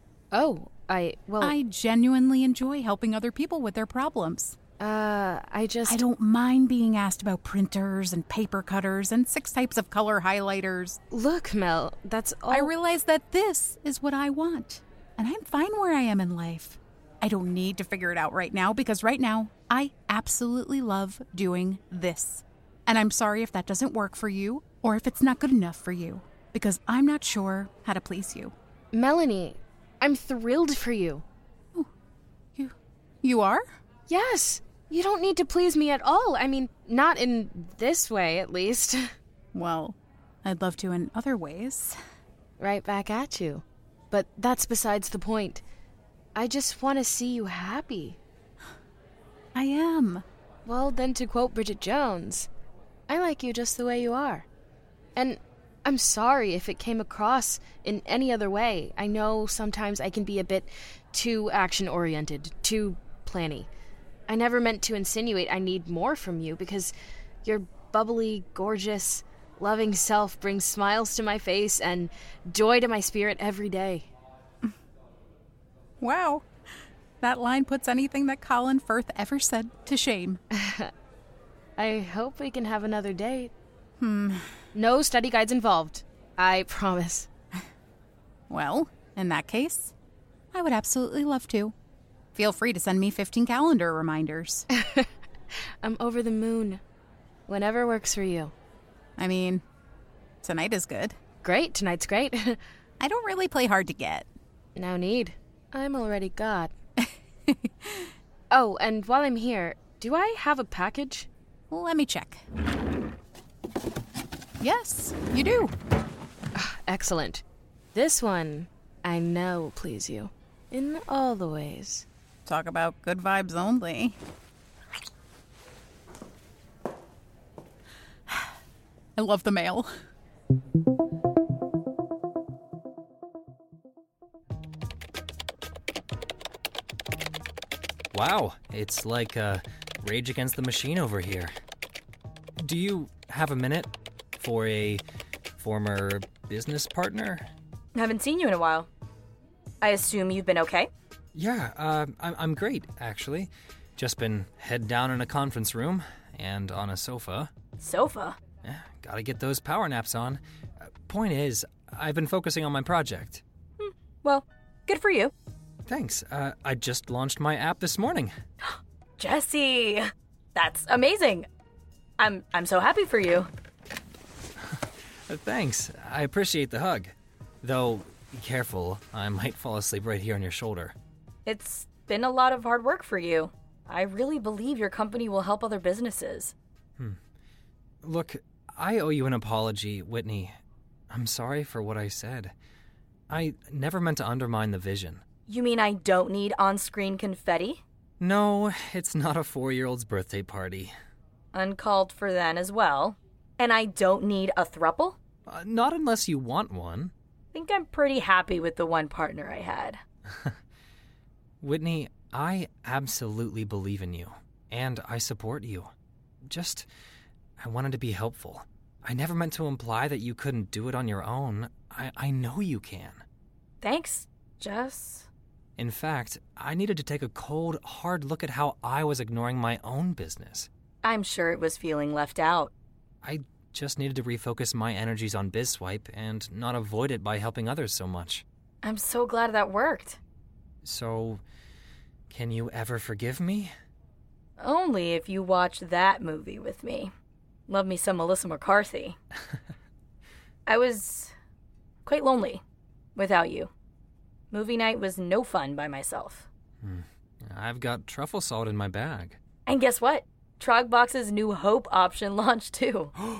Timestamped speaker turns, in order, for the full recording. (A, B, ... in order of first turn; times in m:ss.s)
0:00.3-0:01.6 A
0:01.4-0:04.6 B
0:04.8-0:06.0 A
0:05.8-0:11.0 B
0:11.1-0:12.7 A
0:12.5-0:28.5 B
0:28.9-0:31.2 A
0:32.6-0:33.6 B
0:34.1-0:39.1 A
0:39.5-0:42.0 B
0:42.6-0:45.6 A
0:46.3-0:48.2 A
0:49.5-0:50.2 B
0:50.6-0:52.5 A
0:53.1-0:54.4 A
0:55.2-1:03.7 A
1:04.3-1:14.1 A
1:16.0-1:16.4 B
1:17.2-1:20.4 B
1:20.5-1:20.9 A
1:21.8-1:23.5 A
1:24.0-1:24.4 B
1:24.7-1:27.3 A
1:28.5-1:29.9 B
1:30.5-1:31.7 B
1:32.3-1:34.7 B
1:34.8-1:35.0 A
1:35.8-1:36.8 A
1:37.5-1:38.5 A
1:39.2-1:39.6 B
1:40.4-1:41.2 B
1:41.4-1:42.6 A
1:43.0-1:44.3 B
1:44.8-1:46.7 A
1:47.5-1:48.0 B
1:48.5-1:51.3 A
1:51.7-1:52.4 B
1:54.6-1:55.7 B
1:56.5-1:57.4 A
1:57.9-2:02.0 A
2:02.4-2:04.2 B
2:09.2-2:09.9 B
2:18.1-2:21.5 C
2:22.6-2:25.0 C
2:25.6-2:27.5 C
2:27.9-2:28.9 D
2:29.8-2:30.9 D
2:31.3-2:37.5 C
2:37.8-2:38.4 D
2:38.6-2:43.4 C
2:43.8-2:45.3 D
2:45.9-2:48.3 C
2:48.6-2:50.0 D
2:50.5-2:51.5 D
2:52.2-2:53.5 D
2:55.3-3:00.9 C
3:01.4-3:06.5 D
3:08.0-3:10.5 C
3:11.1-3:12.5 C
3:13.3-3:15.2 C
3:15.5-3:17.8 D
3:18.2-3:20.9 C
3:21.5-3:25.2 D
3:25.5-3:27.1 C
3:27.5-3:30.0 D
3:31.6-3:35.9 C
3:36.5-3:36.9 C
3:37.6-3:43.2 C
3:43.8-3:45.3 D
3:45.8-3:50.7 C
3:51.0-3:52.7 D
3:53.2-3:58.4 C
3:58.8-4:00.2 D
4:00.8-4:01.4 C
4:02.3-4:03.7 C
4:04.6-4:07.1 D
4:07.7-4:09.2 D
4:10.7-4:11.3 D
4:12.0-4:12.6 D
4:13.2-4:13.7 D
4:14.5-4:16.5 D
4:16.8-4:19.4 C
4:19.6-4:23.1 D